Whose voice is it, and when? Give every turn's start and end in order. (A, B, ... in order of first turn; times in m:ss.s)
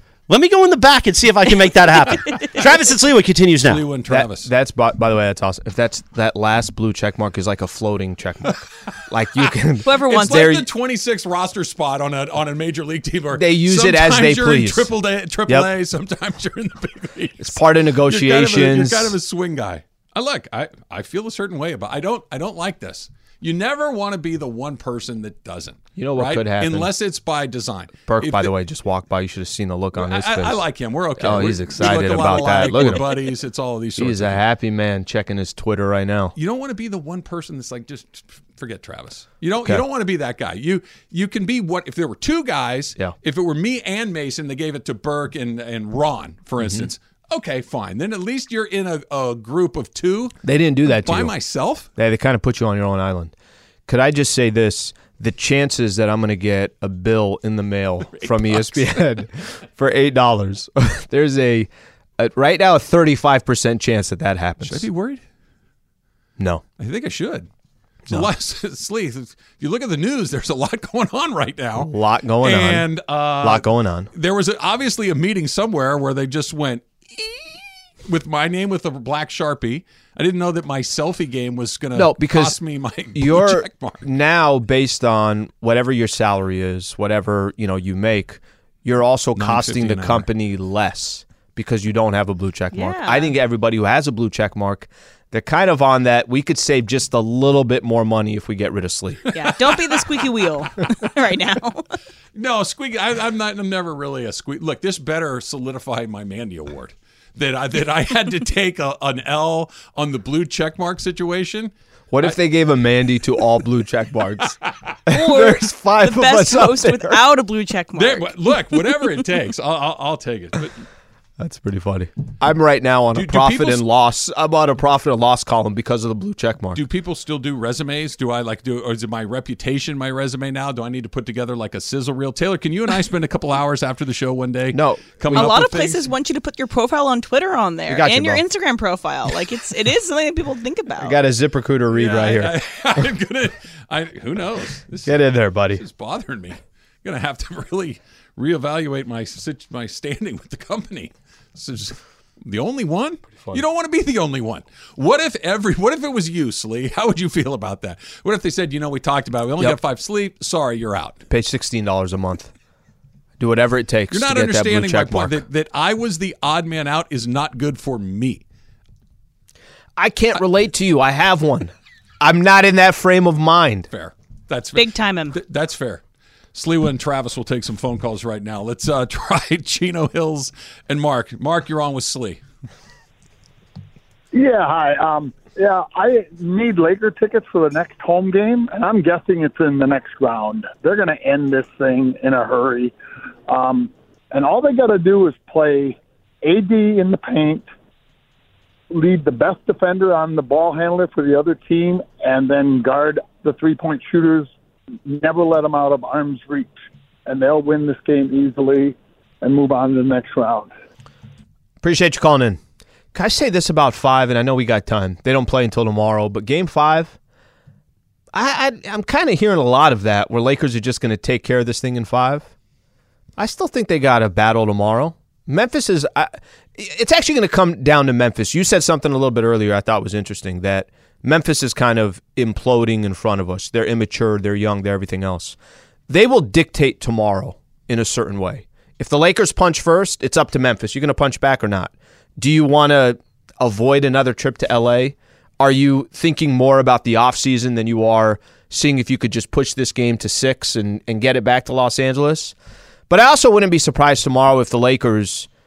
0:00.3-0:03.9 A
0:03.6-0:04.5 B
0:04.1-0:10.7 C
0:09.8-0:10.6 D
0:10.1-0:28.5 B
0:13.3-0:14.9 C
0:17.4-0:19.2 C
0:26.0-0:26.9 C
0:28.1-0:30.6 C
0:30.0-0:34.4 B
0:31.2-0:33.2 C
0:34.0-0:36.4 C
0:36.4-0:51.9 B
0:46.6-0:46.9 C
0:50.4-0:51.3 C
0:52.0-0:53.3 C
0:53.9-1:04.9 C
0:58.2-0:59.0 B
1:04.6-1:05.2 B
1:06.4-1:06.6 C
1:06.8-1:07.5 B
1:08.1-1:24.1 B
1:11.8-1:12.9 C
1:13.4-1:14.1 C
1:22.0-1:22.6 C
1:23.2-1:39.2 C
1:29.4-1:30.3 B
1:32.7-1:33.3 D
1:39.3-1:41.9 D
1:42.4-1:52.4 B
1:52.1-1:57.2 C
1:54.4-1:55.2 B
1:55.1-1:58.8 D
1:58.0-2:00.8 B
2:01.4-2:06.8 C
2:03.1-2:03.8 B
2:06.8-2:16.1 B
2:14.7-2:15.6 C
2:15.3-2:21.2 D
2:17.9-2:18.4 C
2:21.0-2:22.6 C
2:21.9-2:41.2 B
2:25.1-2:25.8 C
2:41.3-2:42.5 C
2:43.4-2:45.4 C
2:44.1-2:48.4 B
2:50.0-2:53.9 C
2:53.9-2:56.0 B
2:54.8-2:55.4 D
2:56.5-3:02.4 B
3:04.3-3:13.0 E
3:13.5-3:17.7 E
3:18.9-3:24.5 E
3:25.0-3:30.7 E
3:31.8-3:32.6 C
3:33.1-3:37.2 C
3:38.3-3:42.5 C
3:43.4-3:55.6 C
3:56.1-4:12.6 C
4:13.1-4:15.5 C